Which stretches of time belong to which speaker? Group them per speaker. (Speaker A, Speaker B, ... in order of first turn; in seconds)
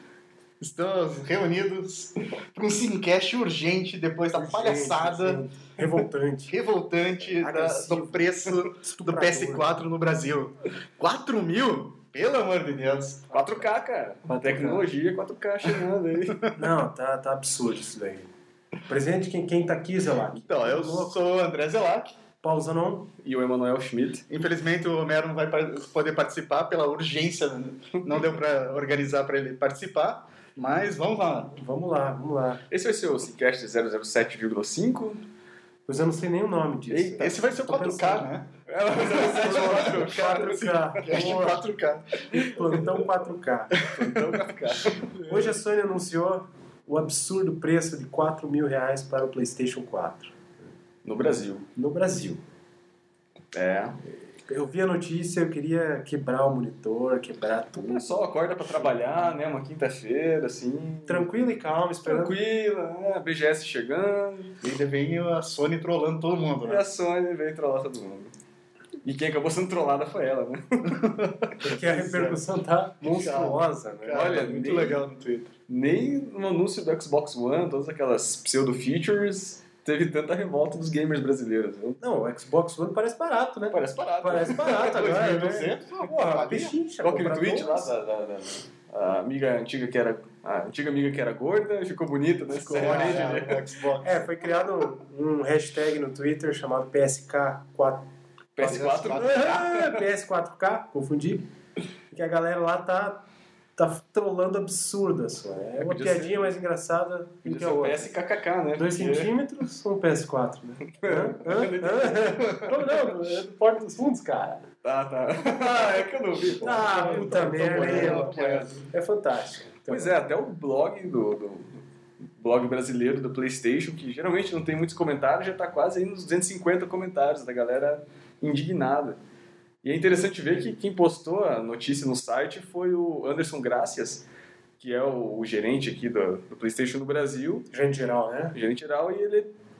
Speaker A: 0.6-5.4, 6.5-13.3, 20.3-22.1, 24.3-31.5, 37.1-42.9, 64.6-66.8, 73.0-75.5, 84.3-86.8, 92.7-94.2, 98.6-99.8, 116.6-118.8
Speaker B: 4.3-6.5, 7.3-9.7, 14.3-14.9, 16.5-18.3, 18.9-21.1, 22.4-23.1, 31.6-32.6, 35.9-38.3, 39.0-41.6, 42.3-44.5, 45.3-50.3, 51.8-52.4, 54.5-59.4, 61.1-62.4, 71.6-75.0, 82.0-87.9, 92.5-93.4, 94.0-98.1, 98.6-101.5, 102.1-103.2, 103.8-108.1, 108.8-114.6, 116.6-120.3, 137.7-138.6
Speaker C: 13.3-16.4, 23.2-24.2, 28.0-28.4, 32.7-35.2, 36.9-37.2, 38.7-40.4, 44.1-45.6, 51.0-51.7, 53.5-54.0, 57.7-61.4, 62.0-64.6, 66.6-68.3, 69.0-72.4, 73.0-73.5, 74.1-75.0, 75.7-82.0, 83.7-85.0, 87.0-93.6, 98.5-99.8, 105.8-106.5, 107.4-109.3, 110.9-112.8, 114.8-118.4, 119.9-121.8, 122.4-129.2, 129.8-134.2, 134.8-137.7, 138.5-139.5